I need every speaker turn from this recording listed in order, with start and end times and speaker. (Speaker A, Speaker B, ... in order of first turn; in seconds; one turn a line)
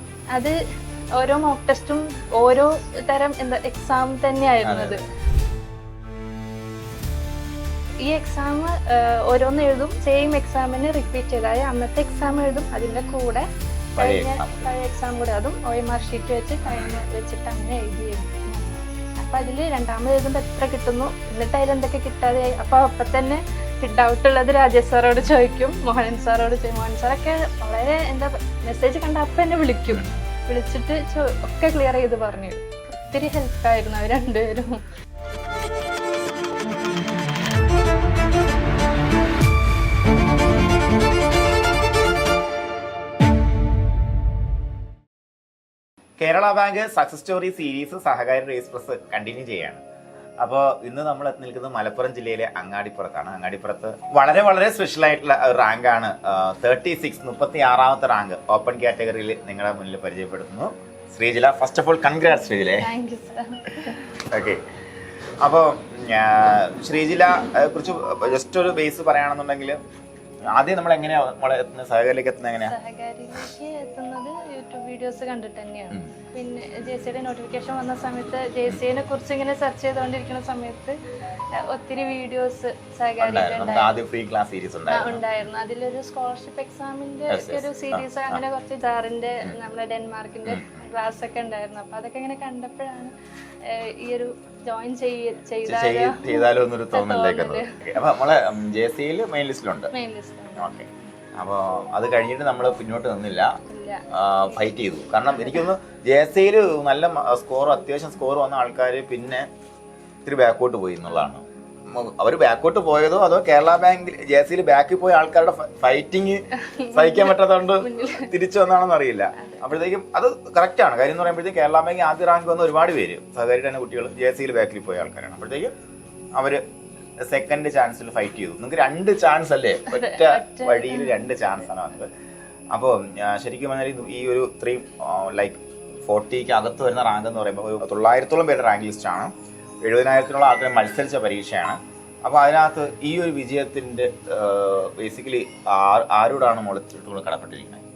Speaker A: 1.2-5.0
Speaker B: 4.6-5.1
Speaker A: 8.0-34.8
Speaker B: 13.9-14.8
Speaker B: 46.2-49.8
Speaker B: 50.4-62.9
Speaker A: 62.8-64.1
Speaker B: 64.2-64.6
Speaker B: 65.4-69.8
Speaker B: 70.5-72.8
Speaker A: 72.6-81.0
Speaker A: 81.6-84.0
Speaker B: 83.2-85.2
Speaker A: 84.9-93.1
Speaker B: 87.3-88.4
Speaker B: 90.5-90.7
Speaker A: 93.6-97.8
Speaker B: 95.7-99.9
Speaker A: 99.9-100.7
Speaker B: 100.6-103.6
Speaker A: 103.7-104.0
Speaker B: 104.1-109.5
Speaker B: 110.2-125.7
Speaker A: 116.6-118.3
Speaker A: 119.4-119.7
Speaker B: 126.3-126.6
Speaker B: 127.2-132.1
Speaker A: 129.9-131.5
Speaker B: 132.7-147.8